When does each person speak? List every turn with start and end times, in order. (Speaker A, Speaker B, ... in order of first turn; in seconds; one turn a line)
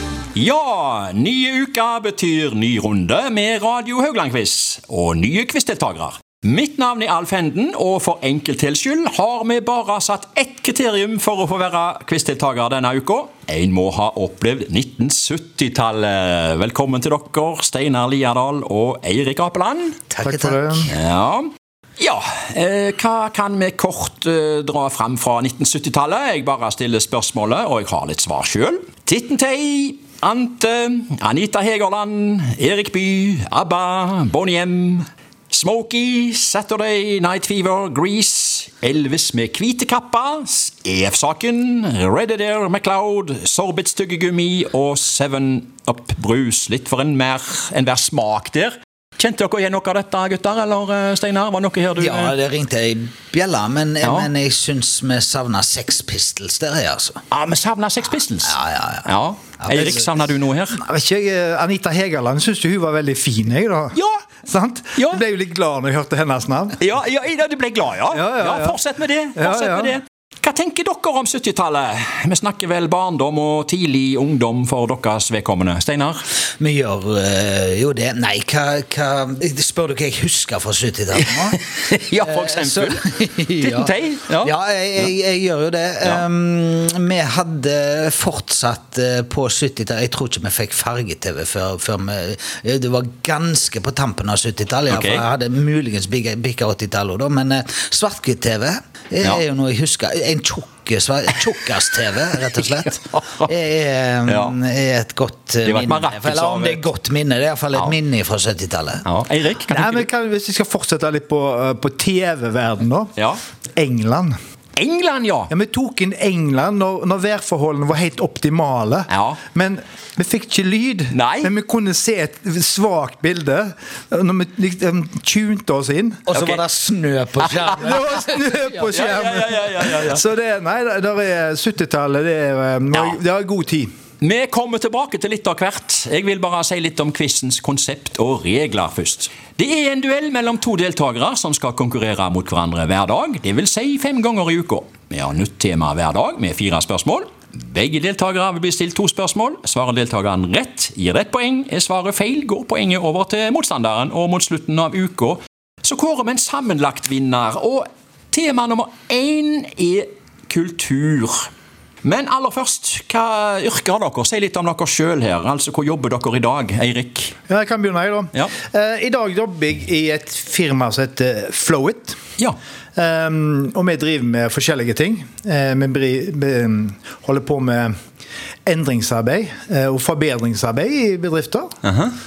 Speaker A: 0.3-19.9
Speaker B: 20.1-20.9
Speaker C: 20.2-20.9
Speaker A: 20.9-52.3
Speaker B: 52.0-57.2
Speaker A: 54.0-54.3
Speaker A: 57.3-60.8
Speaker B: 58.4-60.3
Speaker C: 60.7-66.8
Speaker A: 63.9-64.2
Speaker A: 65.0-65.2
Speaker A: 66.8-76.2
Speaker C: 68.1-68.8
Speaker C: 69.3-70.0
Speaker B: 76.6-109.0
Speaker A: 81.1-85.1
Speaker A: 94.9-95.2
Speaker A: 102.9-103.5
Speaker A: 104.3-104.5
Speaker A: 105.6-106.8
Speaker A: 109.0-110.1
Speaker C: 109.7-113.1
Speaker A: 113.2-113.4
Speaker C: 113.8-114.3
Speaker A: 114.8-115.5
Speaker C: 115.5-126.3
Speaker A: 119.1-119.4
Speaker A: 121.1-121.5
Speaker B: 126.3-128.8
Speaker A: 126.3-126.6
Speaker A: 127.4-127.7
Speaker C: 127.7-133.9
Speaker A: 128.9-130.2
Speaker A: 134.2-161.5
Speaker A: 162.0-167.4
Speaker C: 167.5-172.2
Speaker C: 172.9-177.9
Speaker C: 178.7-181.7
Speaker A: 181.8-182.2